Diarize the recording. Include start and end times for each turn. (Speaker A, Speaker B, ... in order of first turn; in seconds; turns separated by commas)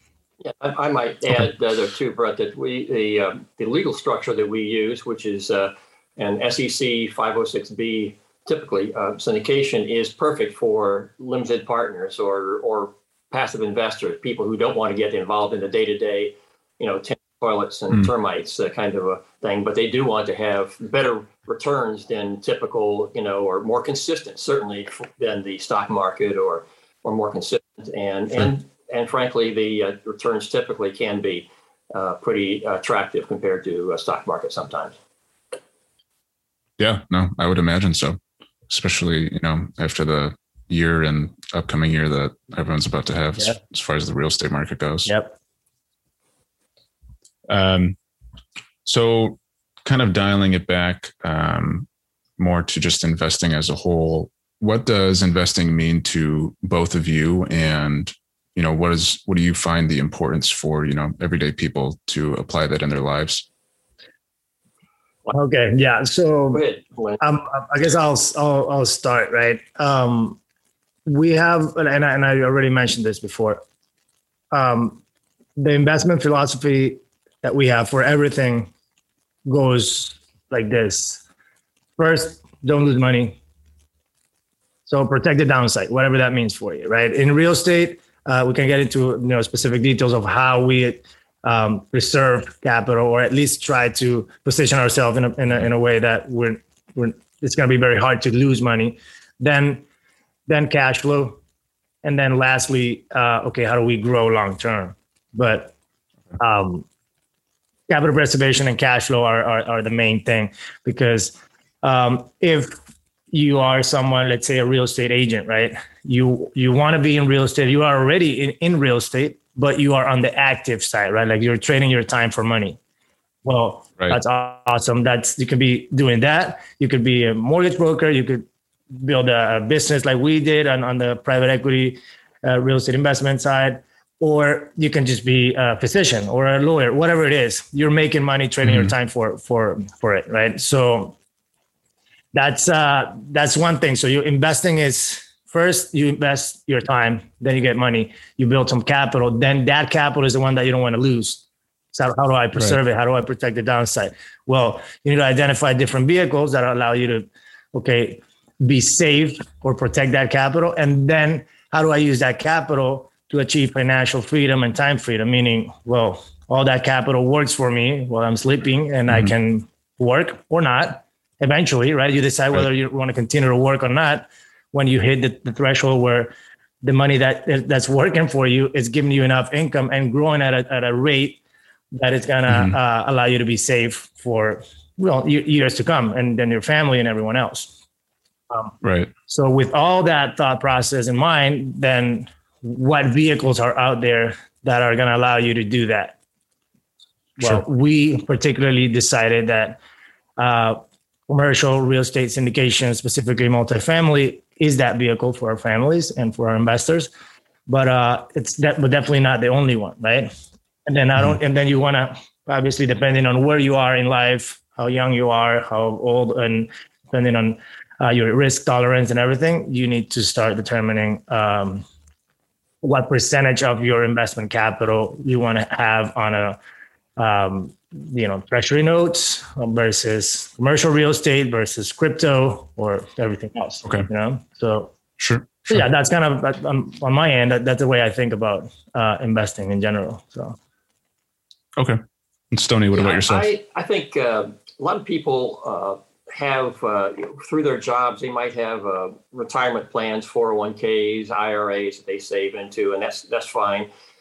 Speaker A: 0.4-35.0, Speaker B: 36.8-38.2, Speaker B: 38.7-45.1, Speaker C: 45.1-45.4, Speaker B: 47.5-48.0, Speaker B: 48.9-51.9, Speaker B: 52.4-63.5, Speaker C: 65.3-66.6, Speaker A: 66.5-67.2, Speaker C: 67.2-70.4, Speaker C: 71.1-73.6, Speaker C: 74.5-75.0, Speaker C: 75.6-78.7, Speaker C: 79.5-81.2, Speaker C: 82.0-83.4, Speaker C: 84.9-99.8, Speaker C: 100.5-101.4, Speaker C: 102.0-105.7, Speaker C: 106.4-106.8, Speaker C: 107.9-112.8, Speaker C: 113.3-122.8, Speaker C: 123.5-141.2, Speaker B: 138.6-138.9, Speaker C: 142.3-181.4, Speaker C: 181.9-187.8, Speaker B: 182.5-182.8, Speaker B: 188.8-189.1, Speaker C: 189.3-196.2, Speaker C: 197.4-199.8, Speaker C: 200.4-207.1, Speaker C: 207.7-210.3, Speaker C: 210.9-221.9, Speaker C: 222.8-226.6, Speaker C: 227.2-234.9, Speaker B: 235.2-235.8, Speaker C: 235.7-240.6, Speaker B: 242.5-243.5, Speaker A: 242.9-253.9